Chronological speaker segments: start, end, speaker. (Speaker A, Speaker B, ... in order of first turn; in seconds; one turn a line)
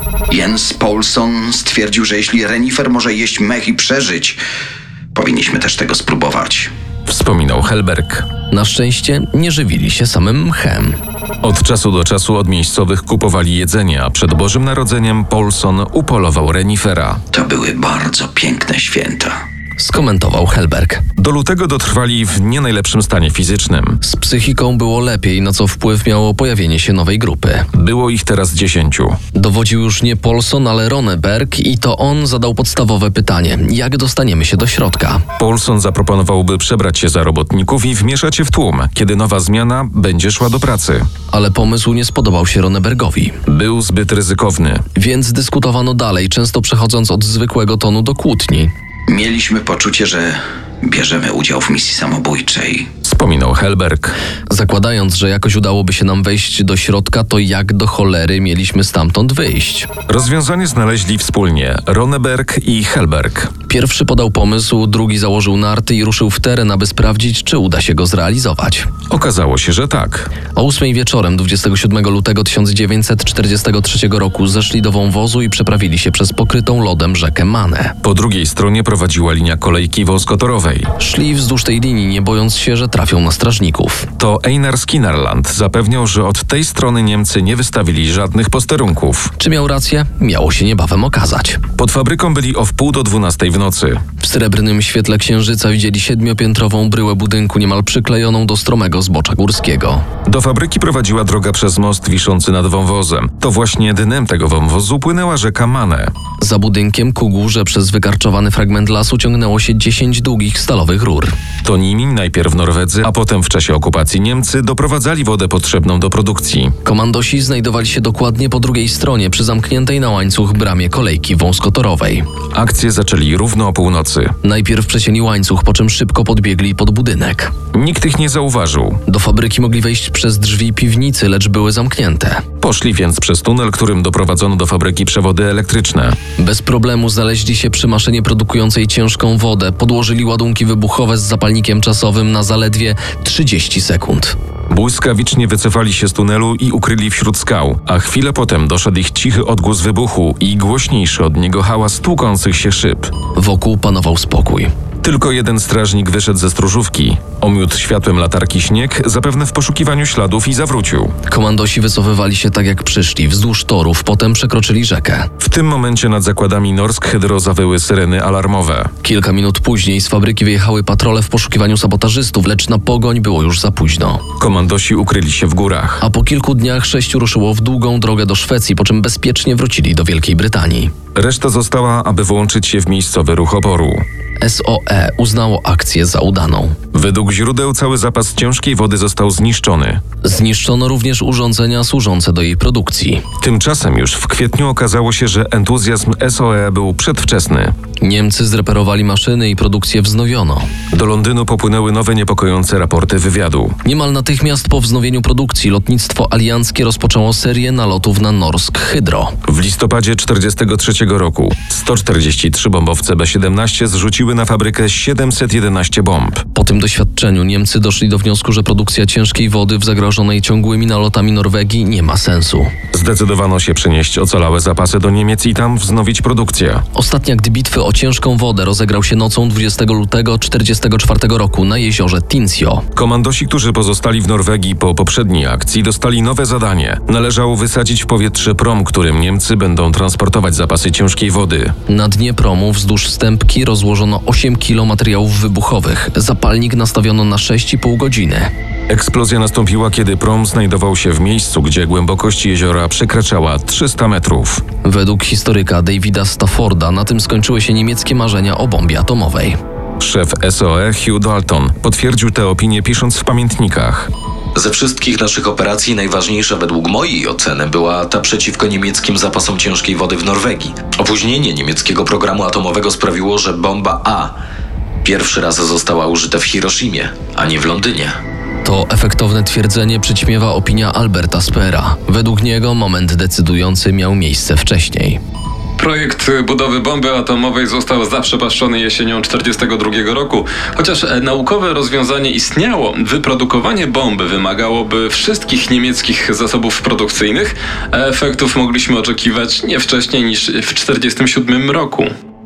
Speaker A: 0.3-4.4
Speaker A: 5.1-6.7
Speaker B: 7.1-8.3
Speaker C: 8.5-11.0
Speaker B: 11.4-17.2
Speaker A: 17.3-19.4
Speaker C: 19.8-21.0
Speaker B: 21.2-24.0
Speaker C: 24.0-27.7
Speaker B: 27.7-29.2
Speaker C: 29.3-35.2
Speaker B: 35.4-41.1
Speaker C: 41.3-43.4
Speaker B: 43.5-44.9
Speaker C: 45.0-48.7
Speaker A: 49.1-52.9
Speaker B: 53.0-54.1
Speaker C: 54.5-59.9
Speaker B: 60.1-63.5
Speaker C: 63.7-68.9
Speaker B: 69.1-70.3
Speaker C: 70.5-78.0
Speaker B: 78.0-80.9
Speaker C: 81.0-84.1
Speaker B: 84.2-89.3
Speaker C: 89.4-91.6
Speaker B: 91.8-94.0
Speaker C: 94.2-100.0
Speaker B: 100.2-106.1
Speaker C: 106.4-111.3
Speaker B: 111.6-116.7
Speaker C: 116.8-122.3
Speaker B: 122.5-124.3
Speaker C: 124.4-127.5
Speaker B: 127.7-129.0
Speaker C: 129.1-132.4
Speaker B: 132.6-136.2
Speaker C: 136.4-144.4
Speaker B: 144.7-153.1
Speaker C: 153.3-154.7
Speaker B: 155.0-161.2
Speaker C: 161.3-165.3
Speaker B: 165.4-168.9
Speaker C: 169.0-174.2
Speaker B: 174.4-176.0
Speaker C: 176.0-180.9
Speaker B: 181.1-184.0
Speaker C: 184.4-186.8
Speaker B: 186.9-190.0
Speaker C: 190.2-193.2
Speaker B: 193.4-197.7
Speaker C: 198.0-200.7
Speaker B: 200.9-203.8
Speaker C: 203.8-209.3
Speaker B: 209.4-216.4
Speaker C: 216.5-222.7
Speaker B: 222.9-226.8
Speaker C: 226.9-232.9
Speaker B: 232.9-241.7
Speaker C: 241.9-248.5
Speaker B: 248.9-254.6
Speaker C: 254.8-259.6
Speaker B: 260.0-264.1
Speaker D: 264.6-274.4
Speaker D: 275.0-278.2
Speaker C: 278.6-285.2
Speaker E: 285.8-302.1